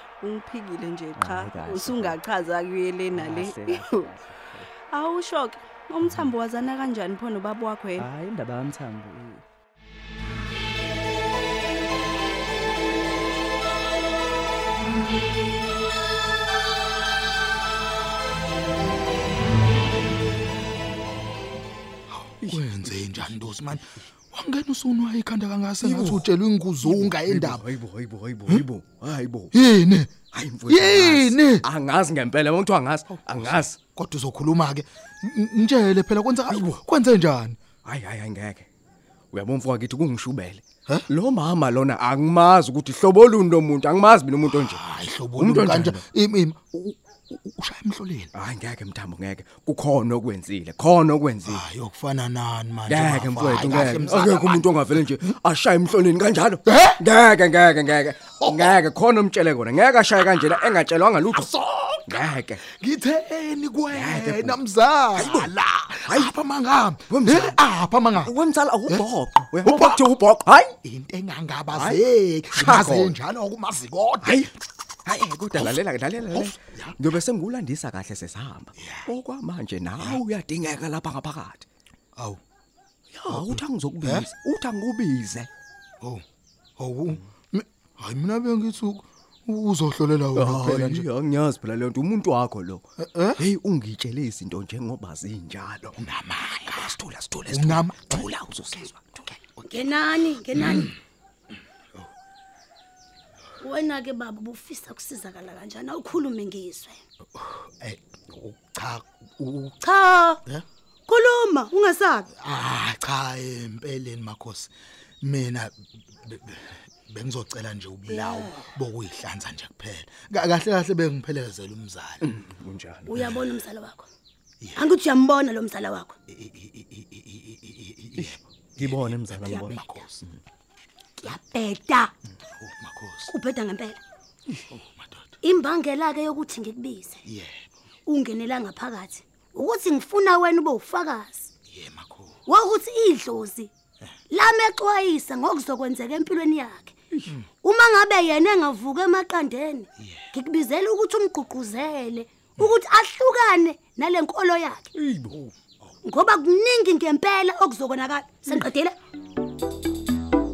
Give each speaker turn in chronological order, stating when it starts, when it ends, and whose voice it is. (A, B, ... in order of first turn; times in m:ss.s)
0:00.2-0:03.8 A
0:01.2-0:02.2 B
0:03.1-0:04.7 B
0:04.9-0:08.0 A
0:06.0-0:06.3 B
0:08.0-0:09.4 B
0:22.1-0:27.7 C
0:22.4-0:23.4 D
0:25.8-0:26.3 D
0:26.8-0:29.5 D
0:29.5-0:30.1 C
0:30.3-0:33.8 D
0:30.7-0:31.6 C
0:33.3-0:37.6 C
0:36.5-0:36.8 D
0:37.8-0:38.7 D
0:39.3-0:46.0 D
0:44.4-0:48.3 C
0:48.3-0:51.6 D
0:51.5-0:54.8 C
0:52.9-1:01.5 D
0:56.6-0:57.0 C
0:58.4-0:58.8 C
1:01.4-1:02.0 C
1:02.1-1:02.6 D
1:02.7-1:08.3 C
1:03.9-1:04.6 D
1:05.1-1:05.5 D
1:06.1-1:06.3 D
1:07.1-1:07.6 D
1:08.2-1:10.7 D
1:09.6-1:10.0 C
1:10.8-1:14.3 C
1:11.7-1:13.2 D
1:14.2-1:14.5 D
1:15.0-1:21.6 D
1:16.3-1:17.0 C
1:18.8-1:19.1 C
1:23.1-1:25.5 D
1:23.3-1:24.3 C
1:26.8-1:31.1 C
1:30.3-1:32.8 D
1:33.0-1:33.4 C
1:33.4-1:36.0 D
1:36.0-1:37.0 C
1:36.7-1:39.4 D
1:37.5-1:38.3 C
1:39.7-1:40.9 E
1:40.6-1:40.9 C
1:43.6-1:47.0 E
1:47.8-1:49.7 C
1:49.8-1:50.4 E
1:51.1-1:52.3 E
1:52.4-1:54.7 C
1:55.2-2:02.2 C
1:58.1-1:58.7 E
2:02.2-2:03.1 D
2:03.1-2:04.1 E
2:04.7-2:06.1 E
2:06.3-2:10.2 C
2:08.2-2:10.4 D
2:09.5-2:09.9 E
2:11.2-2:12.1 E
2:12.6-2:13.3 C
2:13.3-2:14.0 E
2:14.7-2:15.3 C
2:15.4-2:17.2 E
2:18.1-2:21.5 E
2:21.7-2:22.4 C
2:22.4-2:23.7 E
2:24.3-2:26.9 E
2:27.6-2:34.8 E
2:35.0-2:35.4 D
2:36.0-2:38.9 E